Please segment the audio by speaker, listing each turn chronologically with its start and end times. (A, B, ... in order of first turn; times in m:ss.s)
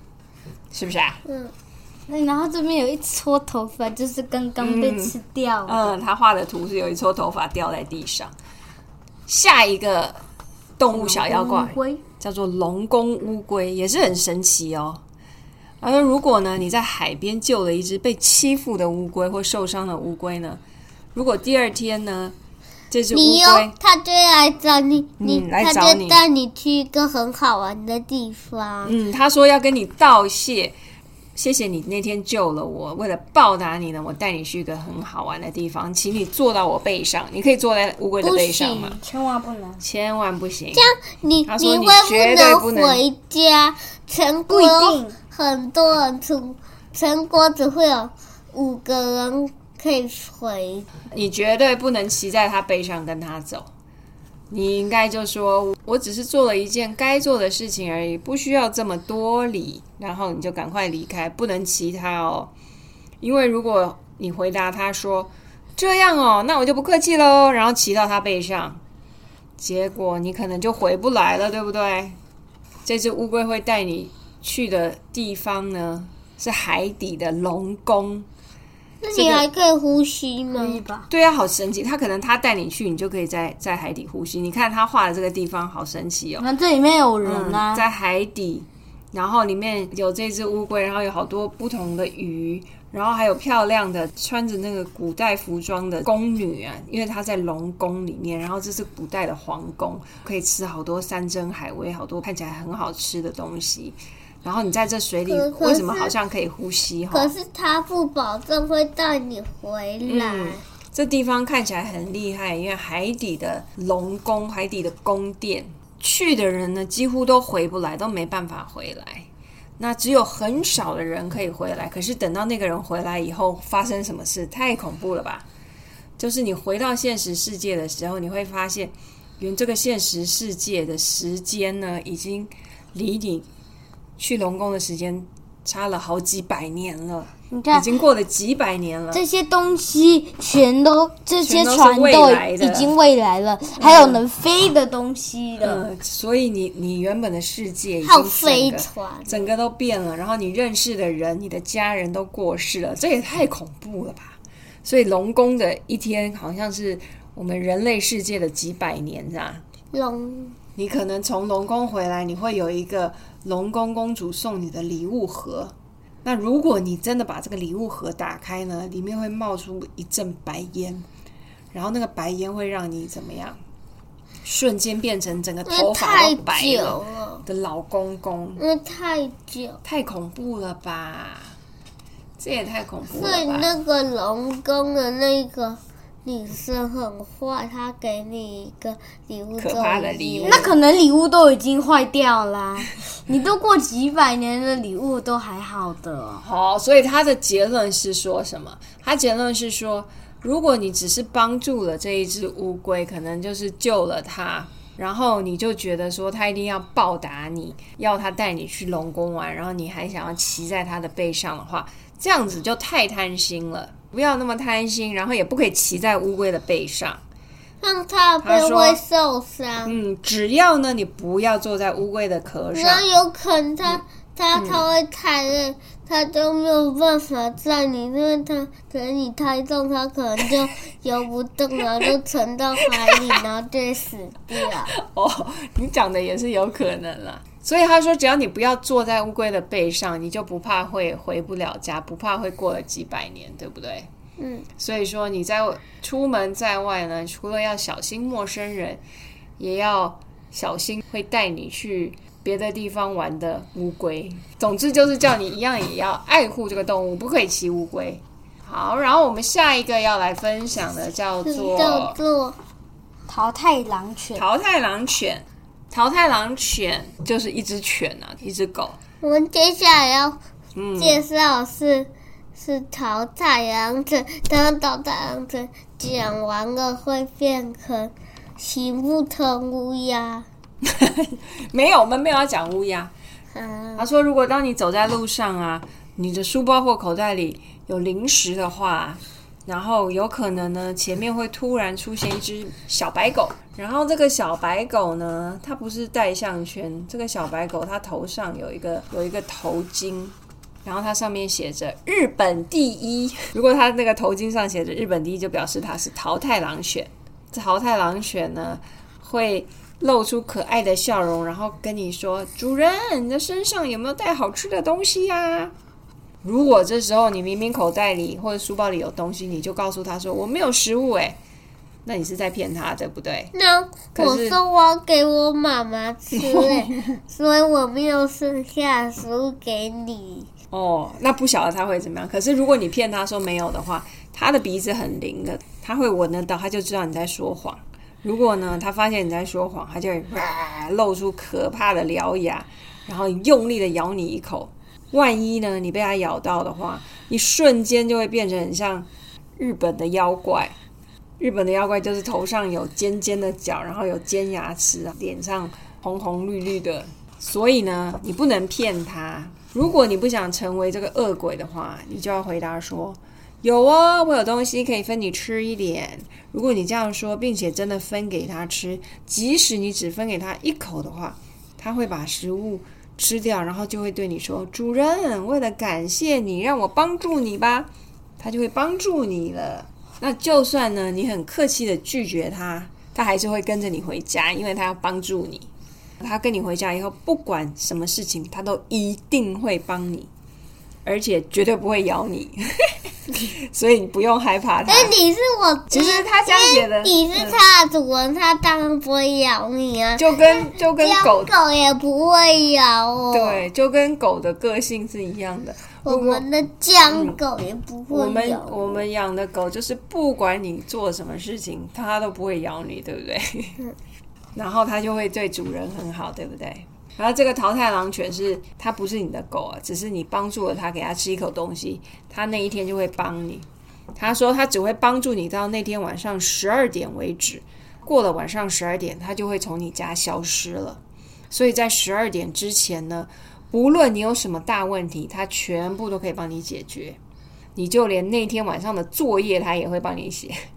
0:00.7-0:01.2 A
0:01.2-0:01.5 B
0:02.1-0:05.9 C
0:04.6-0:08.3 A
0:09.3-0:10.2 A
0:10.8-0:15.0 A
0:10.9-0:12.0 C
0:15.8-0:20.6 A
0:21.1-0:22.4 A
0:22.9-0:23.7 A
0:23.1-0:29.0 B
0:25.2-0:26.2 A
0:28.8-0:30.7 A
0:31.4-0:39.0 A
0:38.2-0:38.9 B
0:39.0-0:39.8 C
0:39.8-0:40.9 A
0:40.7-0:50.9 B
0:41.4-0:43.0 A
0:44.5-0:45.2 C
0:51.1-0:53.7 A
0:54.5-1:02.5 A
1:03.2-1:08.8 A
1:09.6-1:12.2 A
1:12.8-1:18.3 A
1:19.0-1:20.8 B
1:19.1-1:19.4 A
1:20.6-1:21.1 C
1:21.1-1:26.5 A
1:26.4-1:27.8 C
1:27.2-1:47.3 A
1:45.3-1:46.1 B
1:47.1-1:50.6 B
1:50.0-2:05.4 A
2:06.2-2:13.5 A
2:14.2-2:19.2 A
2:17.5-2:17.9 C
2:19.1-2:25.8 C
2:21.4-2:22.9 A
2:23.8-2:24.2 A
2:25.6-2:39.6 A
2:28.0-2:29.5 B
2:39.9-2:40.6 B
2:40.8-2:45.7 A
2:46.2-2:51.0 A
2:51.7-2:53.6 A
2:54.4-2:58.6 A
2:55.6-2:57.4 B
2:58.6-2:59.8 B
2:59.8-3:01.6 A
3:02.4-3:03.7 A
3:03.1-3:10.7 B
3:09.6-3:10.7 A
3:10.4-3:16.4 C
3:16.4-3:37.2 A
3:37.8-3:40.0 B
3:38.4-3:39.0 A
3:39.8-3:43.0 A
3:42.7-3:54.9 B
3:44.5-3:44.8 A
3:52.8-3:53.2 A
3:54.9-4:04.1 A
4:04.4-4:04.6 B
4:04.8-4:09.0 A
4:09.6-4:22.2 A
4:21.4-4:22.6 B
4:23.3-4:24.4 C
4:24.3-4:29.0 A
4:29.2-4:30.4 B
4:30.8-4:31.2 A
4:31.0-4:40.5 B
4:40.8-4:43.1 A
4:43.5-4:44.0 B
4:44.0-5:15.7 A
5:16.4-5:21.4 A
5:22.0-5:23.5 A
5:23.5-5:30.5 B
5:24.1-5:24.6 A
5:26.3-5:27.2 A
5:30.7-5:50.7 A
5:51.4-6:25.7 A
6:26.2-6:30.3 A
6:31.0-6:35.1 A
6:34.9-6:43.7 B
6:35.9-6:37.6 A
6:40.2-6:41.5 A
6:43.3-6:46.4 A
6:46.0-6:49.1 B
6:47.1-6:47.4 A
6:48.1-6:53.8 A
6:54.6-7:11.0 A
7:11.5-7:17.2 A
7:17.8-7:20.6 A